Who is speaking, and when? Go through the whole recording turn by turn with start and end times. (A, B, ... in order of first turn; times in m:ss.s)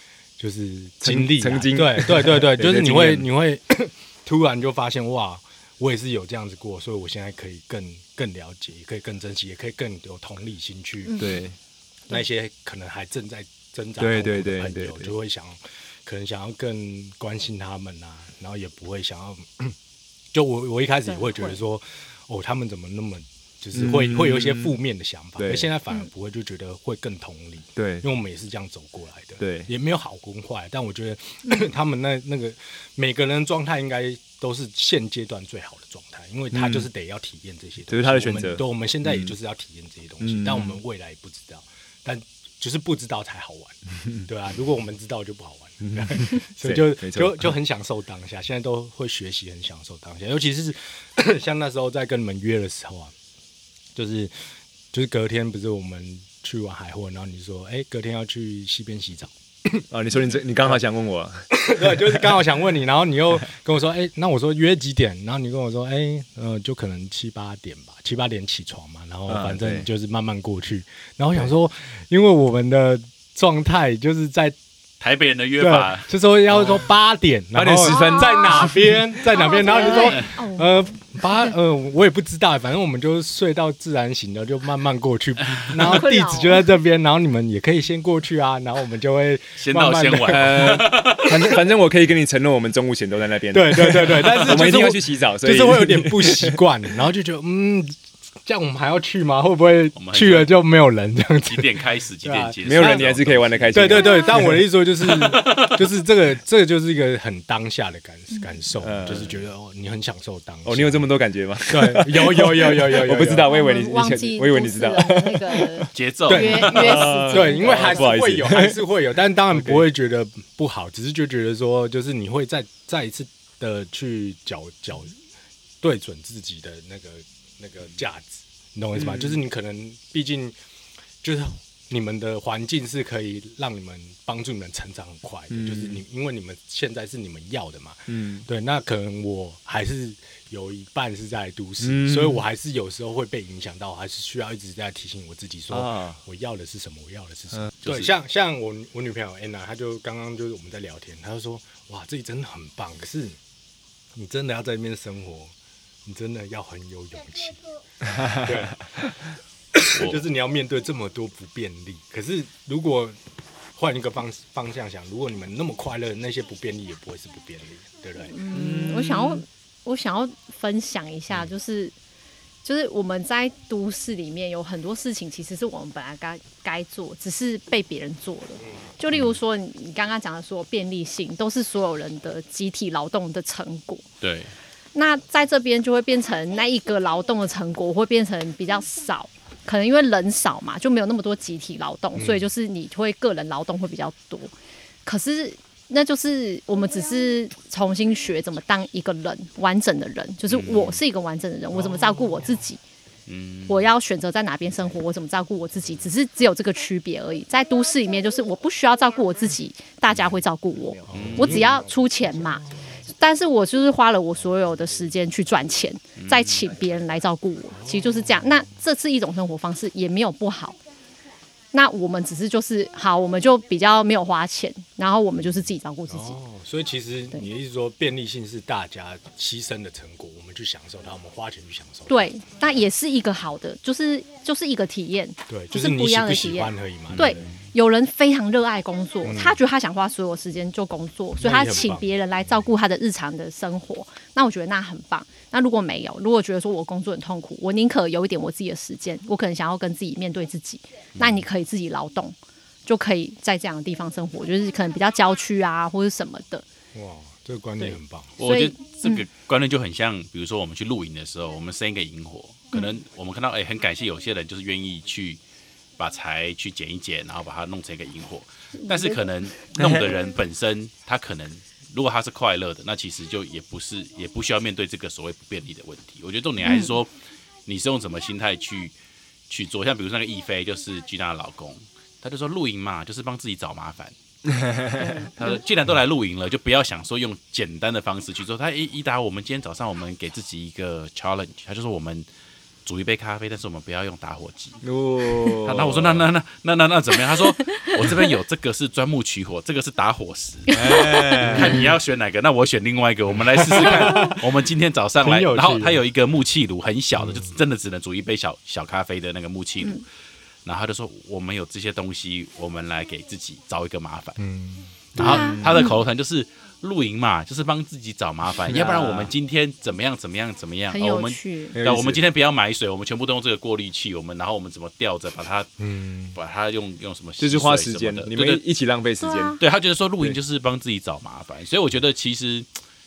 0:00.4-0:11.3 A
0:01.0-0:03.3 B
0:11.2-0:11.6 B
0:12.1-0:19.8 A
0:14.0-0:15.1 B
0:20.3-0:53.1 A
0:21.1-0:21.6 C
0:23.7-0:24.8 B
0:25.4-0:25.7 B
0:27.8-0:28.0 B
0:29.4-0:29.7 B
0:36.5-0:36.9 B
0:37.9-0:39.3 B
0:40.2-0:40.8 B
0:45.8-0:47.5 B
0:53.9-0:54.3 A
0:54.9-0:59.8 A
0:59.9-1:01.4 B
1:01.5-1:14.6 A
1:09.3-1:09.9 B
1:15.0-1:16.1 D
1:15.6-1:31.0 A
1:16.5-1:16.8 B
1:17.5-1:19.0 B
1:17.8-1:18.7 C
1:19.2-1:21.4 C
1:20.0-1:20.2 D
1:25.8-1:26.7 C
1:29.6-1:31.6 D
1:30.2-1:36.6 B
1:33.5-1:43.1 A
1:40.0-1:40.5 D
1:41.4-1:44.0 D
1:42.6-1:44.6 B
1:43.7-1:51.1 A
1:43.9-1:44.4 C
1:45.0-1:45.8 D
1:48.8-1:49.3 B
1:49.0-1:49.4 D
1:50.6-1:58.8 B
1:51.7-1:53.5 A
1:53.3-1:58.1 C
1:55.9-1:57.1 D
1:56.3-2:05.1 A
1:59.5-1:59.8 B
2:05.8-2:10.5 A
2:08.9-2:09.4 B
2:11.2-2:33.4 A
2:15.5-2:16.0 B
2:18.1-2:18.5 B
2:21.8-2:22.4 B
2:25.7-2:26.2 B
2:27.8-2:28.1 D
2:34.1-2:35.5 A
2:36.0-2:37.6 A
2:38.2-2:38.8 A
2:39.7-2:43.2 A
2:39.9-2:40.2 D
2:43.7-2:48.3 A
2:48.2-2:51.9 C
2:48.5-2:49.3 D
2:48.6-2:49.3 B
2:52.6-3:04.0 C
3:04.2-3:04.5 D
3:04.9-3:14.5 C
3:15.0-3:22.8 C
3:20.5-3:21.0 D
3:21.9-3:22.2 A
3:23.3-3:23.9 D
3:23.7-3:32.7 C
3:31.1-3:31.8 A
3:31.1-3:31.6 B
3:31.1-3:31.7 D
3:33.2-3:40.8 C
3:36.2-3:36.6 D
3:37.8-3:38.7 A
3:41.7-3:46.4 C
3:46.1-3:52.3 A
3:52.1-4:16.6 C
3:55.5-3:57.5 A
3:57.1-3:57.6 D
3:59.2-3:59.6 A
4:01.4-4:02.1 A
4:11.2-4:11.4 D
4:16.9-4:18.3 A
4:17.8-4:19.2 C
4:18.4-4:25.4 D
4:26.0-4:37.1 D
4:28.8-4:29.2 C
4:29.8-4:30.0 B
4:36.6-4:36.9 C
4:37.6-4:38.9 D
4:39.5-4:44.1 D
4:44.5-4:45.0 B
4:45.0-4:45.6 C
4:45.4-4:52.2 D
4:52.8-4:54.8 D
4:54.8-4:56.3 B
4:55.6-5:10.0 D
4:57.7-4:58.2 C
5:00.7-5:01.5 C
5:00.7-5:01.9 B
5:01.5-5:01.9 A
5:03.5-5:04.4 A
5:04.0-5:04.4 C
5:05.2-5:06.0 A
5:10.6-5:14.4 D
5:14.4-5:15.4 A
5:15.1-5:25.7 D
5:15.2-5:16.0 C
5:15.2-5:15.8 B
5:18.6-5:19.3 B
5:20.9-5:21.8 C
5:21.7-5:22.2 B
5:25.8-5:26.3 A
5:26.3-5:28.6 D
5:27.4-5:29.6 B
5:29.2-5:29.6 C
5:29.6-5:32.7 D